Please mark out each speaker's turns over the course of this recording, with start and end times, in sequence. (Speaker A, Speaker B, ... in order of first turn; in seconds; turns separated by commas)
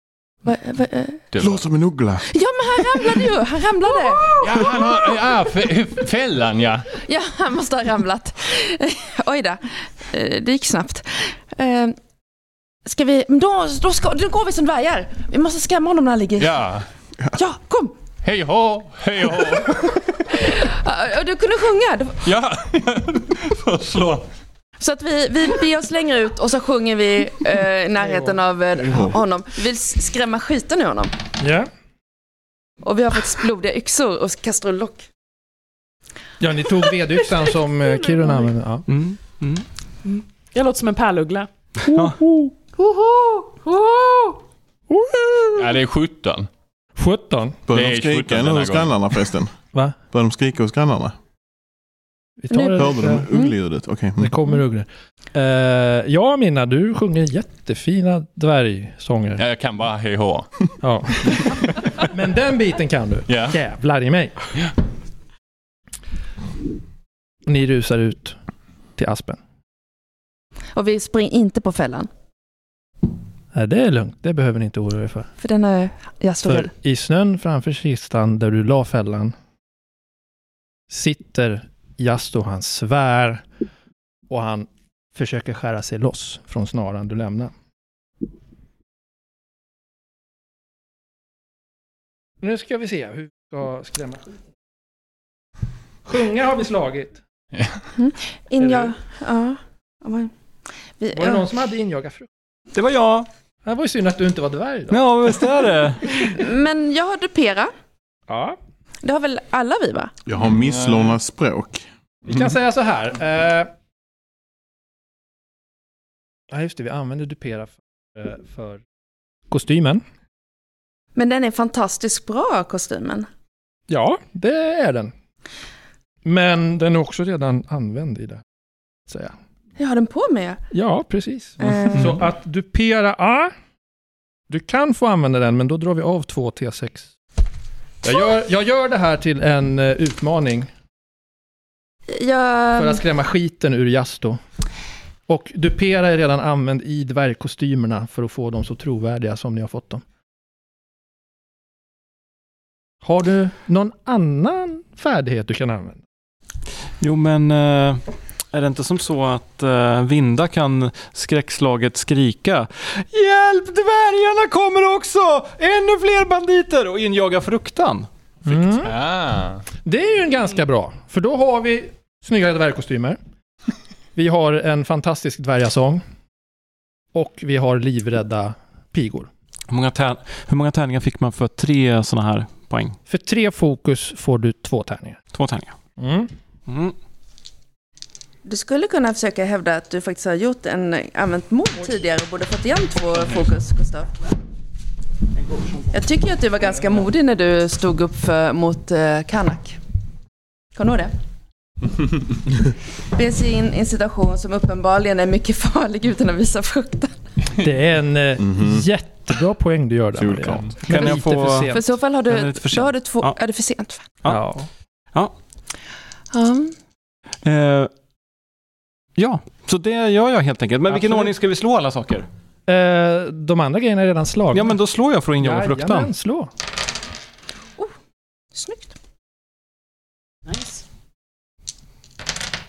Speaker A: 0.4-1.2, Speaker B: 1.3-1.6, Speaker C: 1.4-2.3, Speaker A: 2.3-4.4, Speaker B: 4.3-6.9, Speaker A: 7.0-12.0, Speaker A: 12.8-16.5, Speaker B: 16.4-16.9, Speaker A: 17.4-17.9, Speaker B: 18.2-20.1, Speaker A: 20.3-22.2, Speaker B: 22.2-24.3, Speaker A: 24.8-31.2, Speaker D: 28.0-28.3, Speaker C: 28.8-29.1, Speaker D: 31.4-31.7, Speaker A: 32.8-35.1, Speaker D: 36.4-38.9, Speaker E: 38.9-39.7, Speaker F: 40.0-41.5, Speaker D: 41.9-42.5, Speaker E: 41.9-42.2, Speaker F: 42.8-44.4, Speaker D: 44.9-45.8, Speaker B: 45.5-46.5, Speaker D: 47.0-47.6, Speaker C: 47.7-49.6, Speaker B: 47.7-49.0, Speaker C: 50.1-51.1, Speaker D: 52.4-53.3, Speaker A: 52.5-53.5, Speaker C: 52.8-54.4, Speaker D: 54.2-59.4, Speaker B: 59.4-60.5, Speaker D: 60.8-64.4, Speaker B: 63.3-63.6, Speaker D: 67.5-68.4, Speaker D: 69.0-69.4, Speaker A: 70.8-72.1, Speaker D: 73.5-75.3, Speaker A: 75.4-76.7, Speaker D: 76.5-79.3, Speaker D: 80.9-83.5, Speaker D: 84.3-87.5, Speaker D: 92.4-94.3, Speaker D: 96.0-97.2, Speaker A: 98.0-100.3, Speaker D: 98.6-98.9, Speaker A: 101.0-101.4, Speaker D: 101.2-102.3, Speaker E: 102.7-103.3, Speaker D: 103.7-105.0, Speaker E: 104.9-106.3, Speaker A: 106.3-107.7, Speaker D: 108.3-108.6, Speaker A: 109.0-110.1, Speaker C: 110.3-111.9, Speaker B: 110.5-111.2, Speaker D: 112.2-113.7, Speaker D: 116.5-118.8, Speaker D: 119.5-120.0, Speaker A: 121.2-123.3, Speaker D: 123.9-125.1, Speaker D: 126.2-128.4, Speaker D: 129.1-129.3, Speaker A: 129.8-130.6, Speaker D: 130.7-133.5, Speaker A: 131.6-132.2, Speaker D: 134.5-137.1, Speaker D: 138.0-140.7, Speaker A: 142.1-143.0, Speaker D: 142.8-144.4, Speaker D: 145.3-150.0, Speaker D: 153.0-156.0, Speaker E: 157.0-168.1, Speaker D: 168.4-168.9, Speaker B: 168.8-169.6, Speaker D: 169.8-173.2, Speaker D: 174.2-176.0, Speaker D: 177.1-179.3, Speaker E: 179.7-183.0, Speaker D: 183.1-185.2, Speaker E: 185.3-185.8, Speaker D: 186.0-186.3, Speaker E: 186.7-187.0, Speaker A: 188.4-194.1, Speaker A: 195.9-199.8, Speaker A: 200.8-201.1, Speaker A: 203.1-207.1, Speaker D: 207.6-211.8, Speaker C: 208.4-208.8, Speaker C: 210.2-210.8, Speaker E: 210.8-211.8, Speaker A: 211.7-214.1, Speaker E: 212.3-213.4, Speaker D: 214.3-214.7, Speaker A: 216.3-216.7, Speaker E: 217.4-217.9, Speaker E: 219.2-222.3, Speaker D: 220.9-221.3, Speaker D: 222.7-224.7, Speaker E: 224.5-226.1, Speaker D: 225.4-226.5, Speaker A: 228.5-228.9, Speaker F: 230.5-230.8